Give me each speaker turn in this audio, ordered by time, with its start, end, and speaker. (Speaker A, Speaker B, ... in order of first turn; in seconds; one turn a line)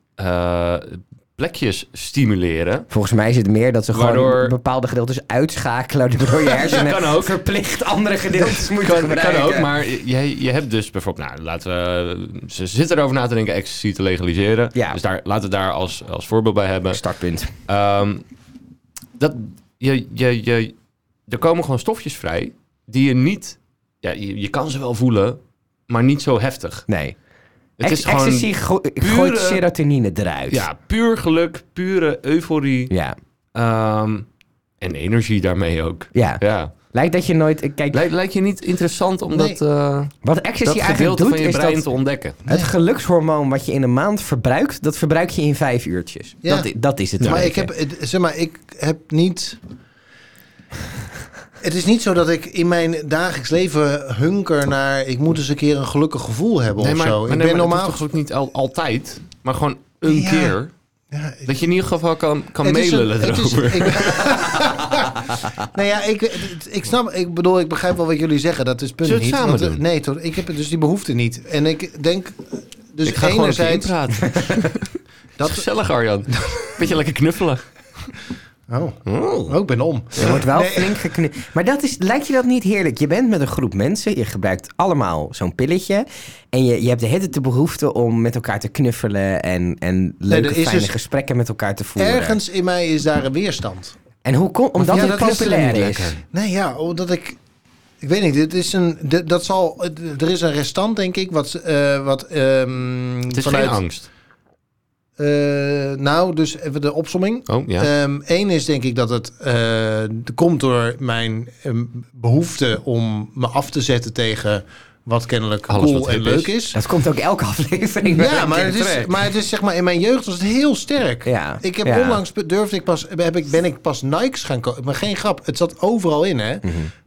Speaker A: 0.2-2.9
Speaker B: 2.9-9.7
Speaker A: 3.9-4.5
Speaker A: 6.5-7.4
Speaker A: 8.5-17.0
Speaker B: 16.9-17.5
Speaker A: 17.7-18.2
Speaker A: 19.2-20.7
Speaker A: 21.3-26.9
Speaker B: 26.9-27.2
Speaker A: 27.8-29.6
Speaker B: 27.8-30.6
Speaker A: 30.5-32.9
Speaker B: 32.9-33.2
Speaker A: 33.5-34.3
Speaker A: 34.8-36.7
Speaker B: 36.1-38.0
Speaker A: 37.9-42.4
Speaker C: 39.3-39.6
Speaker B: 40.2-41.9
Speaker C: 42.5-42.7
Speaker B: 42.5-47.7
Speaker C: 46.4-49.6
Speaker A: 47.2-47.5
Speaker C: 51.6-58.1
Speaker A: 56.8-60.7
Speaker C: 60.0-60.6
Speaker C: 61.1-61.6
Speaker A: 61.5-64.6
Speaker C: 62.6-73.9
Speaker A: 69.0-69.8
Speaker A: 73.0-77.7
Speaker C: 75.4-75.7
Speaker C: 76.3-76.7
Speaker C: 78.7-81.0
Speaker A: 79.1-79.6
Speaker B: 80.2-92.4
Speaker C: 90.3-90.9
Speaker C: 92.0-94.0
Speaker B: 94.2-96.1
Speaker A: 94.8-96.2
Speaker C: 94.9-97.4
Speaker C: 98.0-103.8
Speaker A: 103.3-104.1
Speaker C: 105.2-116.8
Speaker A: 107.5-107.9
Speaker A: 115.7-116.5
Speaker B: 116.7-119.1
Speaker C: 118.1-126.8
Speaker B: 121.3-122.2
Speaker B: 126.6-126.9